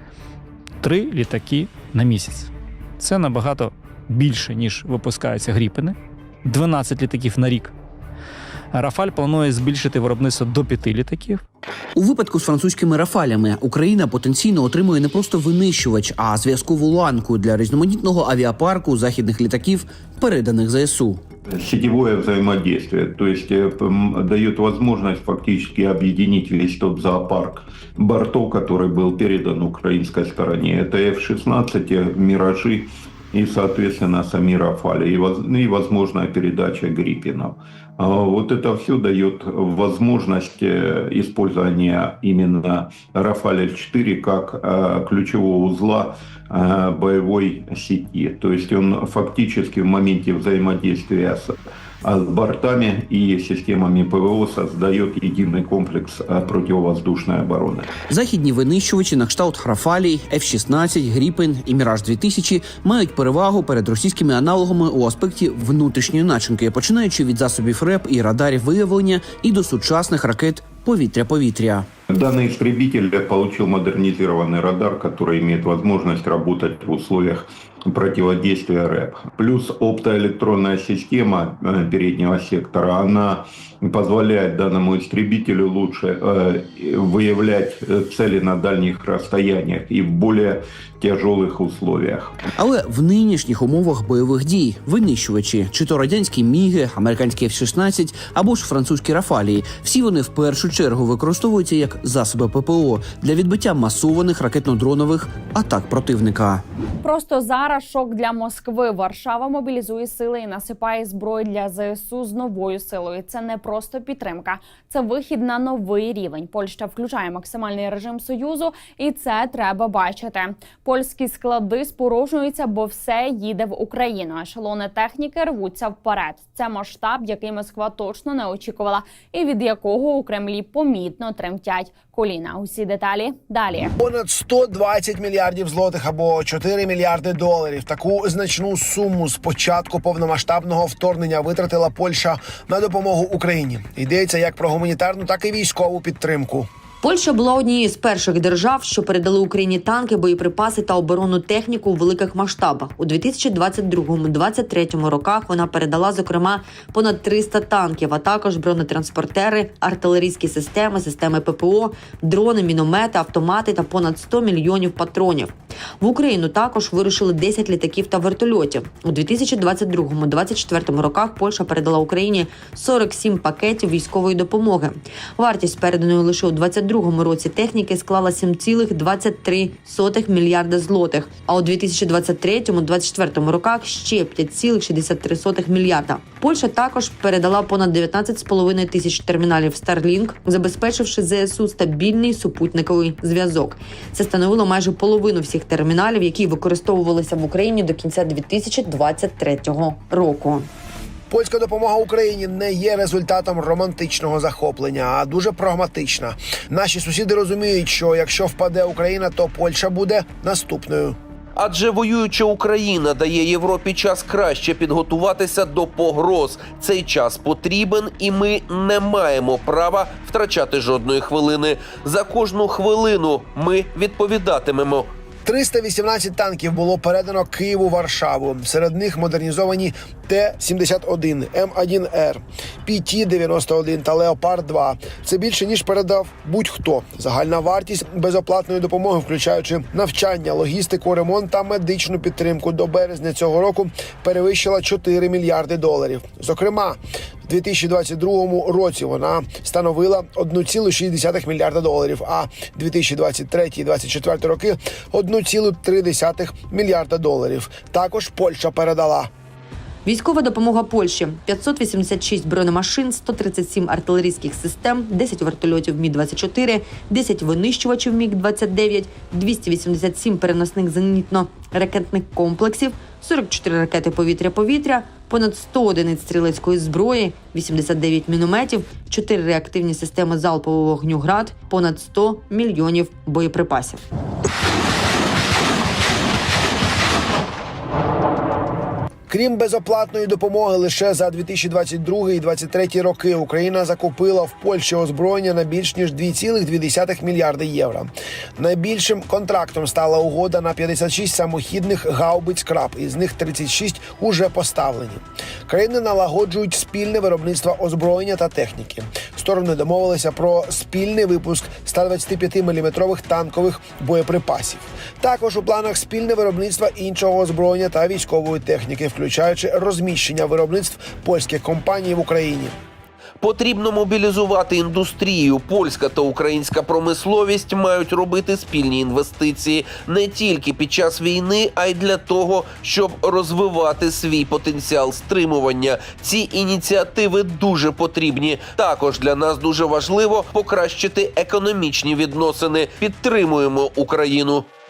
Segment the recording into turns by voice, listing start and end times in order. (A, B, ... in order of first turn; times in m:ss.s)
0:00.8-0:07.7 A
0:08.7-0:11.4 A
0:12.0-0:21.2 B
0:21.5-0:51.5 C
0:52.0-0:57.9 C
0:58.1-1:11.9 B
1:12.1-1:32.4 C
1:32.6-1:46.6 B
1:47.0-2:13.9 D
2:14.0-2:26.7 E
2:27.0-3:20.7 F
3:21.3-3:31.2 E
3:31.6-3:45.1 G
3:45.5-4:19.3 E
4:20.0-4:44.0 F
4:49.3-5:22.7 E
5:23.4-5:44.7 G